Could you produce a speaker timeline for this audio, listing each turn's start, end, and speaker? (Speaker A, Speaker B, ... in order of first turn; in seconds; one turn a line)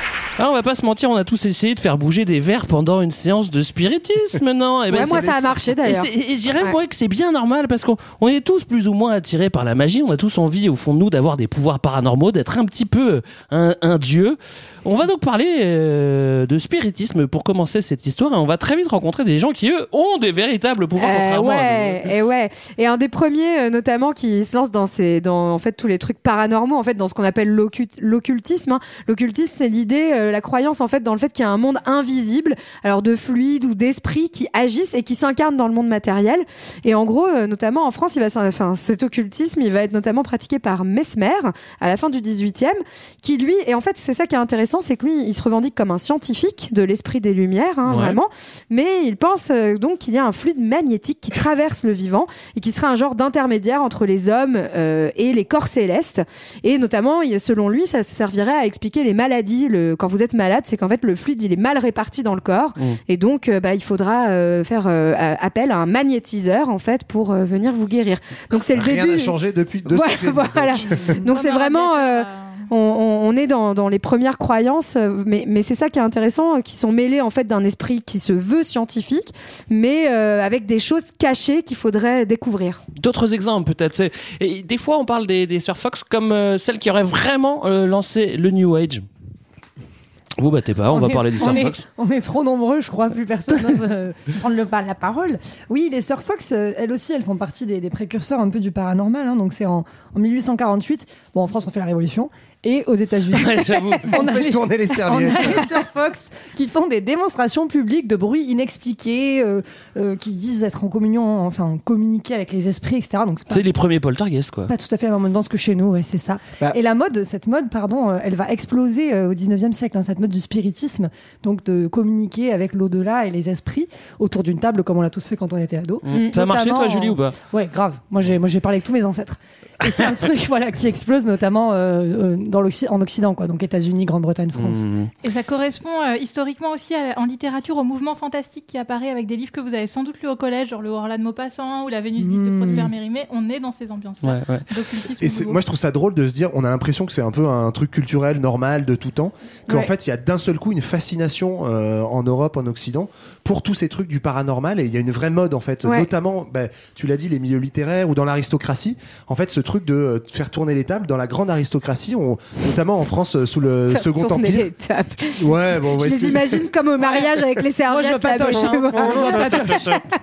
Speaker A: 0.4-22.1
Speaker B: 4.9-6.1
Speaker B: 21.0-69.4
Speaker A: 47.9-48.2
Speaker C: 68.7-71.1
Speaker B: 69.9-82.8
Speaker D: 71.3-72.7
Speaker A: 83.0-89.0
Speaker A: 90.4-91.8
Speaker E: 90.9-113.7
Speaker A: 103.3-104.2
Speaker C: 104.1-105.7
Speaker A: 113.5-114.7
Speaker E: 114.7-134.9
Speaker A: 126.0-127.4
Speaker A: 134.5-135.1
Speaker D: 135.2-145.6
Speaker E: 142.2-142.9
Speaker A: 144.2-144.7
Speaker C: 145.2-164.7
Speaker B: 163.9-170.0
Speaker C: 165.4-166.7
Speaker E: 167.0-167.3
Speaker E: 167.8-170.0
Speaker A: 169.0-170.0